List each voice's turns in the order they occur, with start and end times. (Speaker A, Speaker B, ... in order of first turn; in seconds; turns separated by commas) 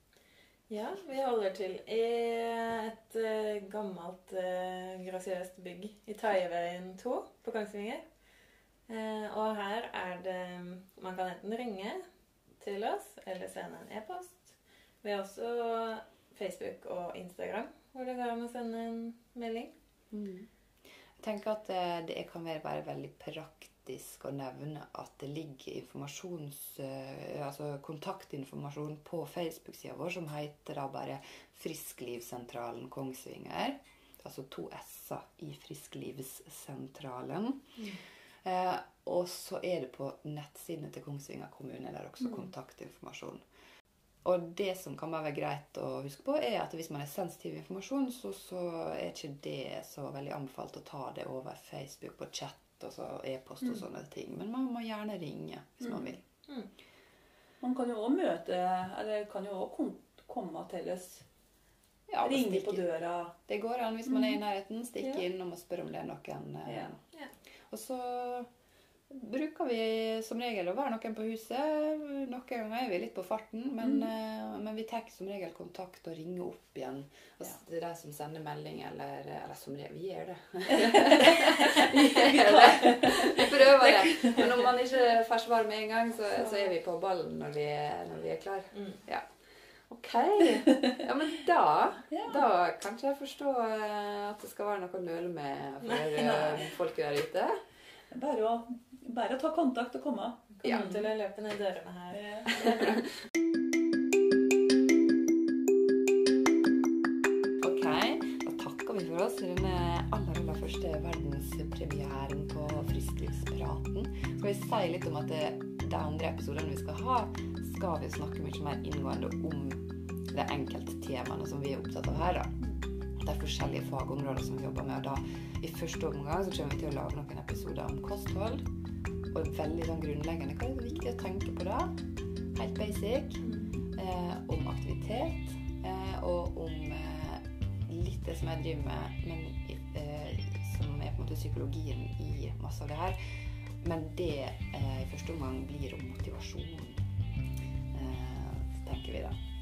Speaker A: 0.7-8.0, Speaker A: 8.9-12.0, Speaker A: 12.6-19.7, Speaker B: 20.1-20.5, Speaker B: 21.2-37.8, Speaker B: 38.4-43.4, Speaker C: 42.2-42.5, Speaker B: 44.2-56.2, Speaker C: 55.8-56.1, Speaker C: 57.6-61.2, Speaker B: 62.1-62.9, Speaker C: 62.2-63.4, Speaker B: 63.5-67.0, Speaker C: 64.1-64.4, Speaker C: 65.0-65.2, Speaker C: 66.7-66.9, Speaker B: 67.7-68.5, Speaker B: 69.1-89.3, Speaker C: 73.8-74.1, Speaker C: 80.8-84.5, Speaker C: 86.4-86.7, Speaker A: 88.7-89.0, Speaker B: 89.9-97.6, Speaker C: 92.1-92.5, Speaker A: 95.8-96.6, Speaker C: 98.1-101.1, Speaker A: 100.6-103.0, Speaker B: 100.6-100.9, Speaker C: 102.1-102.5, Speaker B: 107.6-122.6, Speaker B: 123.2-128.7, Speaker B: 129.3-131.9, Speaker B: 132.5-143.2, Speaker A: 133.4-133.8, Speaker B: 143.8-147.0, Speaker B: 147.9-149.4